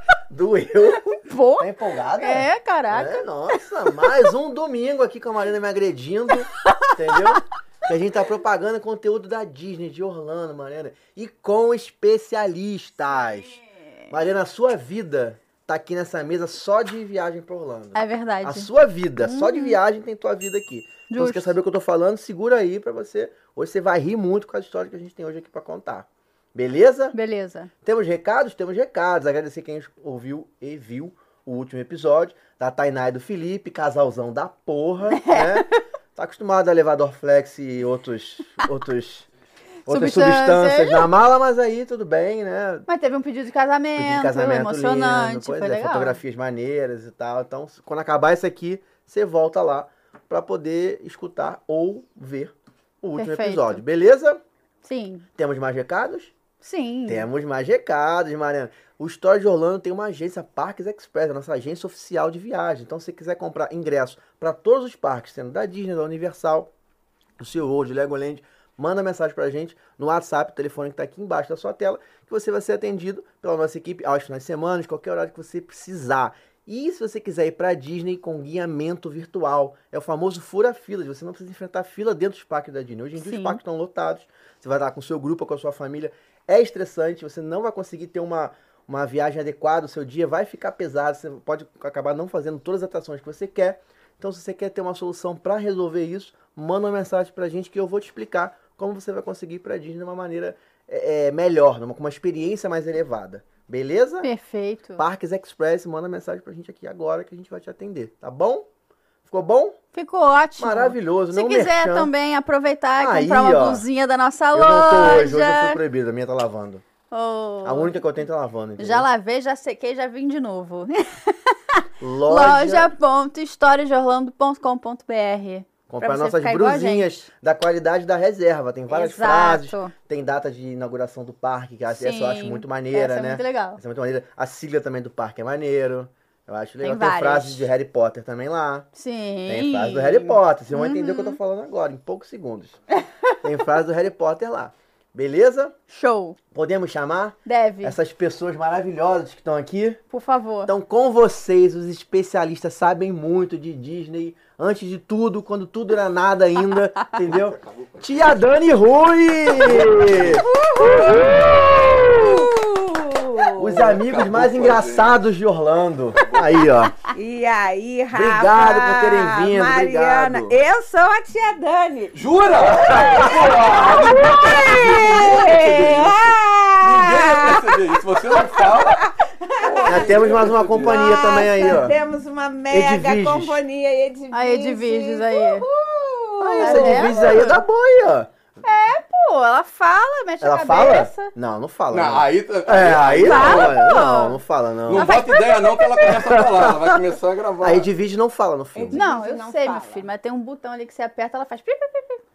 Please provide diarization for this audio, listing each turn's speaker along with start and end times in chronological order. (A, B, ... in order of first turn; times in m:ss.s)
0:00.3-0:27.1 A
0:01.2-0:03.6 B
0:17.9-0:18.7 B
0:19.2-0:19.8 B
0:21.1-0:21.5 B
0:27.1-0:27.7 B
0:27.8-0:39.3 A
0:35.2-0:35.6 B
0:39.8-0:41.1 B
0:39.9-0:42.9 A
0:42.9-0:46.2 B
0:43.9-0:54.4 A
0:53.2-0:53.8 B
0:54.8-0:55.2 B
0:55.4-0:56.3 A
0:56.6-0:57.2 B
0:57.0-1:06.7 A
1:07.4-1:44.3 A
1:23.2-1:23.6 B
1:44.2-1:45.0 B
1:45.0-1:48.7 A
1:49.2-1:49.8 A
1:49.9-1:55.8 B
1:50.6-1:52.1 A
1:53.0-1:53.8 A
1:54.5-1:56.8 A
1:57.1-1:58.0 B
1:57.6-1:59.1 A
1:58.8-2:07.2 B
2:02.0-2:02.9 A
2:05.9-2:18.9 A
2:08.9-2:09.9 B
2:11.9-2:13.8 B
2:16.8-2:17.7 B
2:18.9-2:21.4 B
2:19.4-2:22.8 A
2:23.4-2:25.7 A
2:25.9-2:26.4 B
2:26.5-2:30.0 A
2:27.4-2:28.0 B
2:30.1-2:30.7 B
2:30.6-2:42.5 A
2:37.1-2:38.3 C
2:39.5-2:40.4 C
2:40.5-2:41.5 D
2:42.0-2:44.0 D
2:43.6-2:46.9 A
2:43.7-2:45.2 C
2:46.2-2:46.5 C
2:47.1-3:07.3 D
2:48.1-2:50.6 A
2:52.1-3:01.5 C
2:59.8-3:02.0 A
3:02.7-3:03.6 A
3:04.3-3:05.7 B
3:06.4-3:08.3 A
3:06.5-3:07.6 B
3:08.6-3:11.3 B
3:10.4-3:15.2 A
3:11.9-3:14.1 C
3:13.2-3:14.4 B
3:14.9-3:17.9 C
3:14.9-3:16.4 B
3:16.0-3:17.0 A
3:17.6-3:19.0 A
3:18.7-3:20.1 D
3:18.9-3:22.2 B